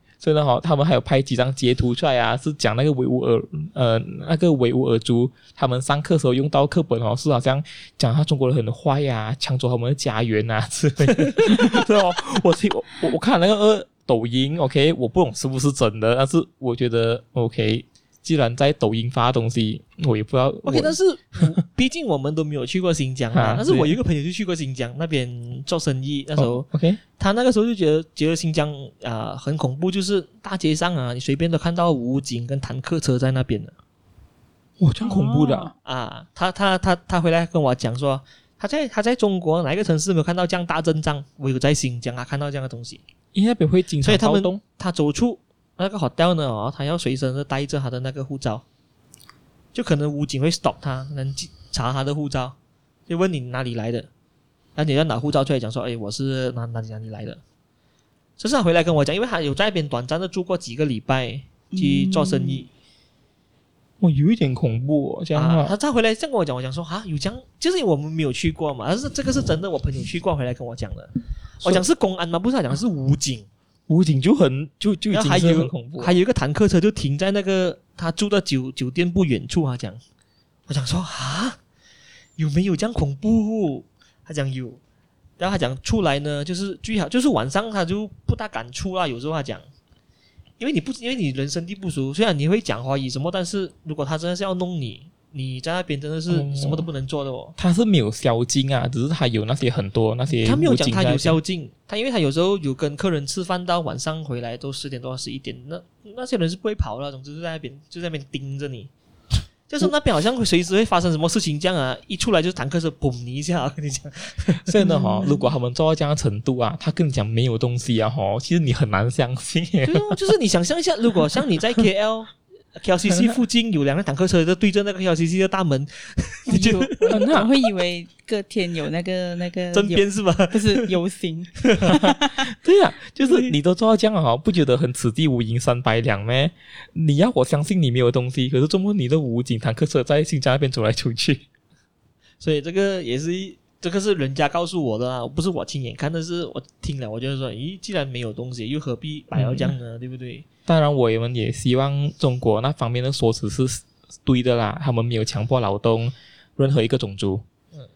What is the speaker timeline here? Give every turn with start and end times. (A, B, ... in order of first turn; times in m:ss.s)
0:00.2-0:21.5 A
0:20.6-0:26.6 B
0:23.3-0:24.0 A
0:26.4-0:27.0 A
0:27.2-0:33.7 B
0:34.8-0:35.7 A
0:35.0-0:35.7 C
0:35.8-0:43.0 B
0:43.3-0:44.6 A
0:44.0-0:48.6 B
0:49.7-0:52.6 B
0:53.1-0:54.1 B
0:54.8-0:57.4 B
0:58.4-1:02.7 B
1:01.7-1:02.6 C
1:04.0-1:05.7 A
1:05.3-1:13.5 B
1:13.9-1:16.2 A
1:15.1-1:20.0 B
1:20.7-1:21.6 B
1:22.4-1:24.8 B
1:25.4-1:29.6 B
1:30.6-1:37.5 B
1:36.3-1:36.9 A
1:37.6-1:41.4 A
1:40.4-1:48.9 B
1:49.7-1:54.7 B
1:54.6-2:00.2 A
1:54.8-1:55.4 C
1:59.8-2:07.2 B
2:06.5-2:12.5 C
2:07.1-2:07.5 A
2:09.7-2:10.9 B
2:11.6-2:12.0 B
2:12.0-2:21.4 A
2:13.2-2:13.5 B
2:22.4-2:30.4 B
2:29.3-2:29.7 A
2:30.7-2:37.4 A